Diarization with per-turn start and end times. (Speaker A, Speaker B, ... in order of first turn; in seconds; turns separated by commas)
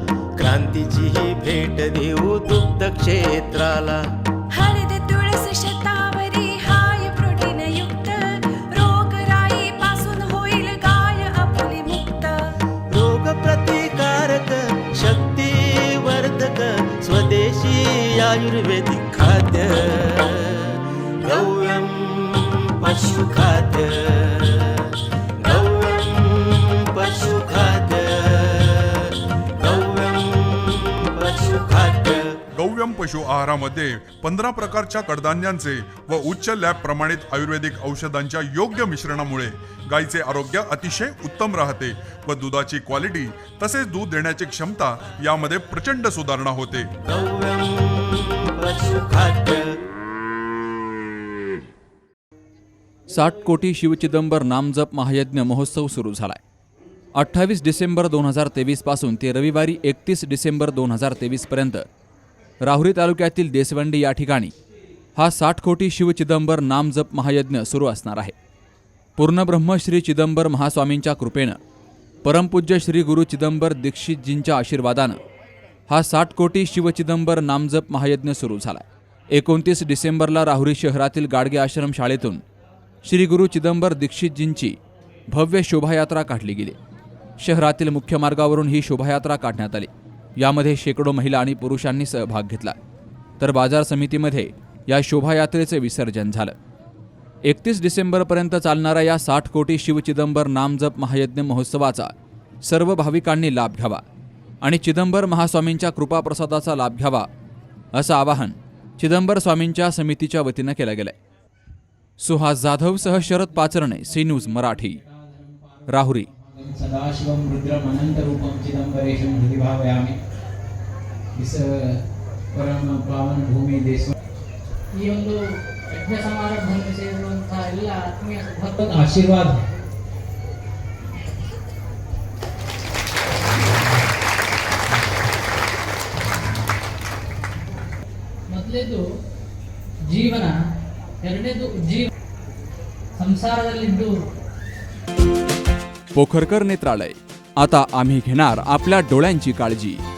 Speaker A: 0.4-4.0, Speaker B: 4.5-12.4, Speaker A: 12.9-32.4, Speaker C: 32.5-46.9, Speaker A: 47.0-49.7, Speaker D: 53.1-56.4, Speaker D: 57.1-61.9, Speaker D: 62.6-64.5, Speaker D: 65.2-68.3, Speaker D: 69.2-71.6, Speaker D: 72.2-75.2, Speaker D: 75.9-82.4, Speaker D: 83.0-84.8, Speaker D: 85.3-86.8, Speaker D: 87.4-92.8, Speaker D: 93.4-96.5, Speaker D: 97.5-104.0, Speaker D: 104.6-107.3, Speaker D: 107.9-111.2, Speaker D: 112.2-115.0, Speaker E: 114.6-115.8, Speaker D: 115.9-116.3, Speaker E: 116.4-120.2, Speaker E: 121.3-122.0, Speaker E: 122.5-124.1, Speaker F: 124.9-129.5, Speaker E: 128.9-129.5, Speaker F: 138.5-139.0, Speaker F: 140.1-140.6, Speaker F: 141.2-142.1, Speaker F: 143.2-144.1, Speaker D: 146.1-150.0